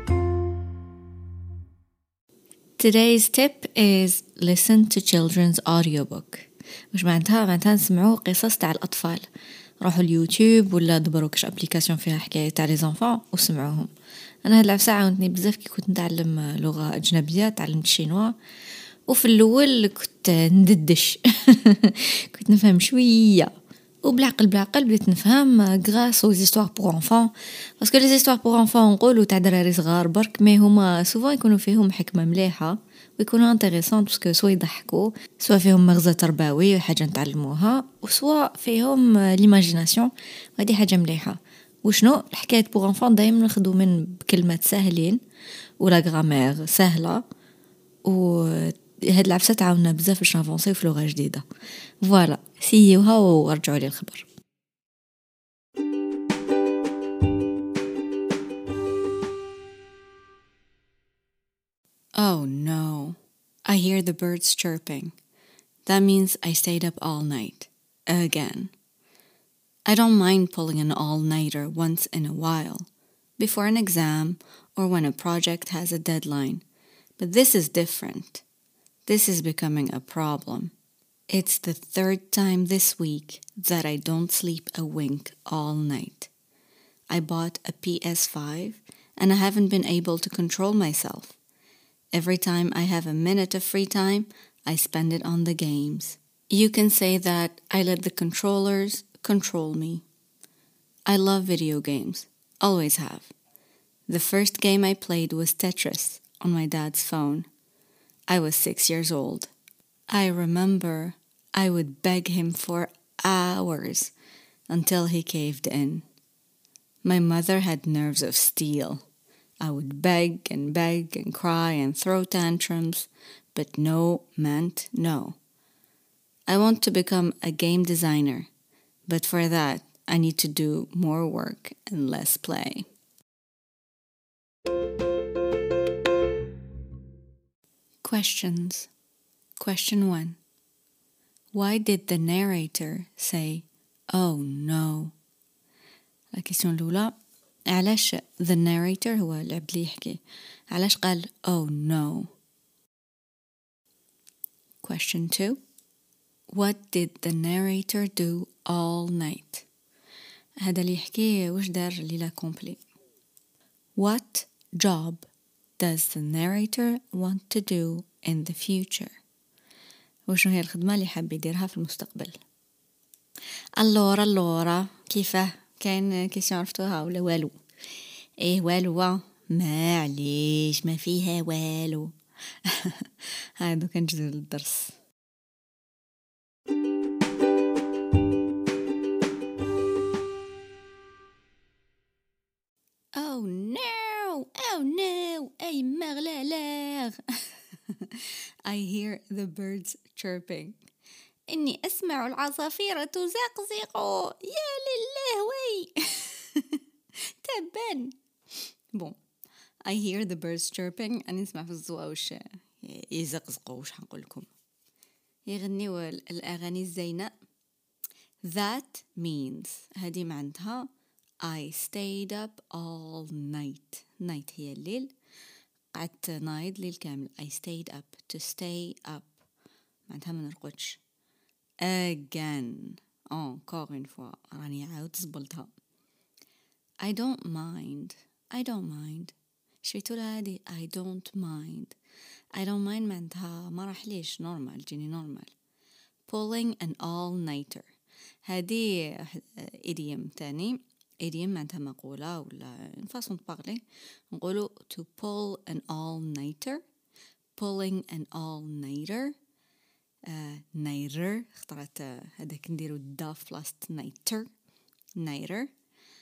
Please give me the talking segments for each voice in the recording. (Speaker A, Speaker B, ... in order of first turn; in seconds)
Speaker A: 2.8-9.3, 9.8-13.9, 14.4-18.3, 19.1-23.5, 24.0-45.2, 45.8-47.2, 48.0-51.4, 52.0-54.3, 62.2-65.1, 65.8-68.7, 69.9-76.6, 77.2-78.4, 79.1-80.7, 81.3-86.3, 87.1-91.4, 92.1-100.0, 101.0-103.3, 104.1-107.5, 108.3-109.5, 110.1-114.1, 114.7-116.0, 117.0-119.0, 119.6-125.4, 126.5-128.5, 129.1-132.8, 138.0-138.9, 139.6-140.4, 141.5-145.1, 146.3-147.1, 147.7-152.3, 154.8-155.6, 156.5-159.7, 160.6-162.8, 163.9-165.2, 165.8-169.2, 170.3-172.4, 173.8-177.6, 178.4-184.9, 193.1-200.8, 201.5-206.8, 207.4-208.1, 209.8-214.5, 215.5-217.3, 218.4-220.9, 221.4-225.1, 225.9-229.4, 230.1-231.0, 231.8-235.7, 237.0-241.9, 242.5-245.5, 246.3-247.9, 248.4-256.8, 257.6-259.3, 260.2-264.5, 265.2-265.7